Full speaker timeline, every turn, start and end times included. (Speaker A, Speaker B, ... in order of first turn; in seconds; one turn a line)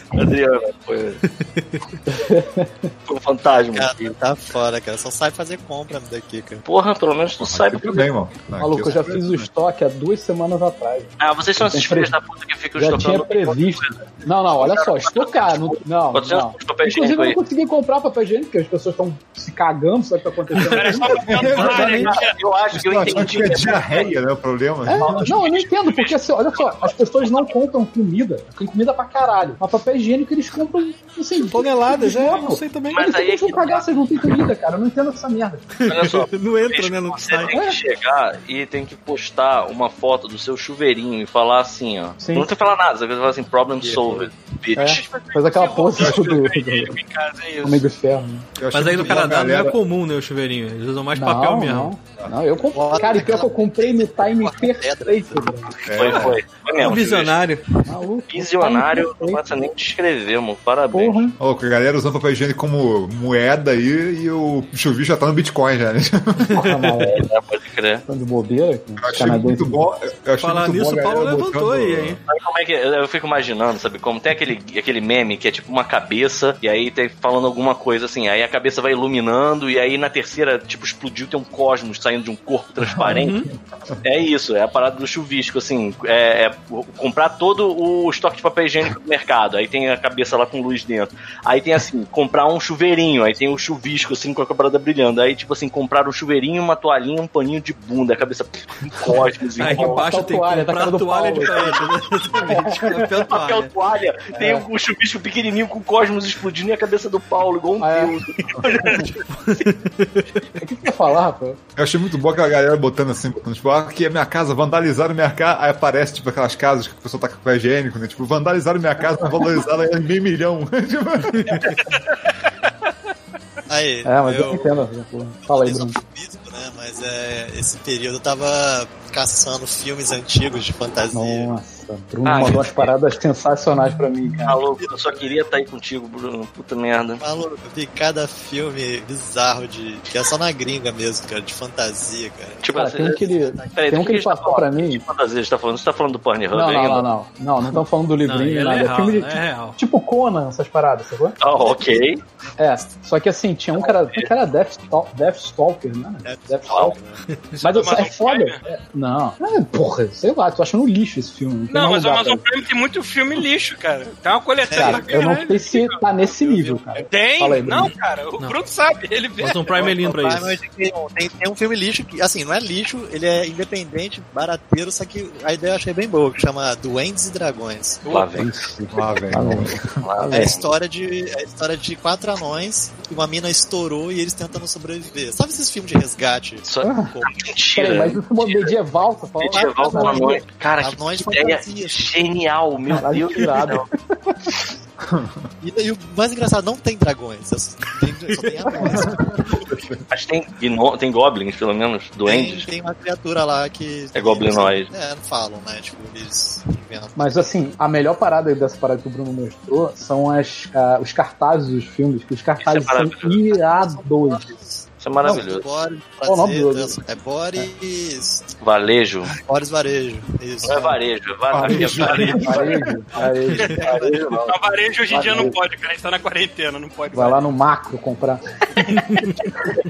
Speaker A: 0.1-1.2
Speaker B: 1.2-1.8
Speaker C: 2.1-2.9
Speaker A: 3.1-4.1
Speaker D: 3.7-6.6
Speaker A: 6.7-8.1
Speaker E: 7.4-9.5
Speaker C: 8.6-12.1
Speaker A: 11.2-17.4
Speaker C: 12.8-21.3
Speaker F: 20.6-22.4
Speaker E: 21.3-22.2
Speaker A: 21.3-24.1
Speaker E: 22.7-25.4
Speaker C: 24.9-35.7
Speaker A: 25.0-27.5
Speaker B: 31.5-33.1
Speaker A: 32.9-33.9
Speaker B: 35.8-37.5
Speaker A: 35.9-45.1
Speaker C: 37.5-37.8
Speaker C: 42.2-42.5
Speaker D: 43.8-44.3
Speaker C: 44.8-46.9
Speaker F: 44.9-47.9
Speaker E: 46.0-46.4
Speaker C: 47.6-48.5
Speaker E: 48.6-49.8
Speaker B: 48.7-51.9
Speaker C: 51.1-55.7
Speaker D: 52.7-55.5
Speaker E: 55.9-56.4
Speaker A: 55.9-57.4
Speaker B: 56.2-57.6
Speaker C: 57.9-59.4
Speaker A: 58.3-61.3
Speaker C: 60.9-61.4
Speaker E: 61.4-66.6
Speaker B: 66.5-67.0
Speaker C: 66.5-67.2
Speaker A: 67.1-68.0
Speaker C: 68.1-69.8
Speaker E: 69.0-72.2
Speaker B: 70.4-72.2
Speaker A: 72.3-83.4
Speaker E: 82.9-83.3
Speaker B: 83.1-83.5
Speaker A: 84.0-100.0
Speaker B: 99.6-103.7
Speaker C: 99.7-101.8
Speaker C: 102.4-103.1
Speaker A: 103.2-109.2
Speaker C: 104.3-104.7
Speaker C: 107.8-108.1
Speaker C: 108.7-109.1
Speaker B: 109.3-110.5
Speaker C: 110.6-111.6
Speaker E: 111.8-121.8
Speaker B: 121.4-121.6
Speaker F: 121.7-122.0
Speaker D: 123.7-124.9
Speaker C: 124.0-126.0
Speaker D: 125.5-131.6
Speaker C: 131.1-134.6
Speaker A: 132.2-132.9
Speaker A: 134.4-137.2
Speaker D: 134.6-135.4
Speaker D: 137.2-143.9
Speaker A: 142.6-147.1
Speaker C: 142.7-145.0
Speaker C: 146.5-151.4
Speaker B: 148.2-149.8
Speaker A: 151.4-152.2
Speaker D: 151.6-152.6
Speaker C: 152.6-156.9
Speaker A: 153.8-154.3
Speaker D: 156.2-157.2
Speaker A: 156.7-156.9
Speaker B: 157.3-157.6
Speaker C: 157.6-162.4
Speaker F: 157.6-158.6
Speaker F: 161.7-169.9
Speaker D: 164.7-165.1
Speaker C: 164.7-167.9
Speaker B: 169.4-170.6
Speaker D: 169.8-178.0
Speaker C: 178.1-180.5
Speaker A: 178.1-178.7
Speaker E: 178.9-179.9
Speaker A: 180.0-180.7
Speaker D: 180.3-187.5
Speaker A: 186.6-188.7
Speaker C: 186.8-187.1
Speaker C: 187.7-190.4
Speaker A: 189.4-193.9
Speaker D: 189.4-192.1
Speaker E: 192.9-193.6
Speaker C: 192.9-193.9
Speaker E: 195.0-195.4
Speaker D: 195.6-199.6
Speaker E: 198.8-200.0
Speaker A: 200.1-202.7
Speaker D: 202.2-207.5
Speaker A: 204.1-204.9
Speaker C: 207.2-214.5
Speaker A: 212.6-213.4
Speaker D: 213.4-218.6
Speaker A: 215.0-215.6
Speaker C: 216.2-217.0
Speaker A: 218.6-219.3
Speaker D: 219.3-221.0
Speaker A: 220.6-222.8
Speaker E: 221.5-222.6
Speaker D: 221.8-224.5
Speaker C: 222.1-223.7
Speaker A: 223.6-224.6
Speaker F: 224.4-227.4
Speaker C: 225.1-225.6
Speaker D: 225.2-225.5
Speaker C: 227.1-229.3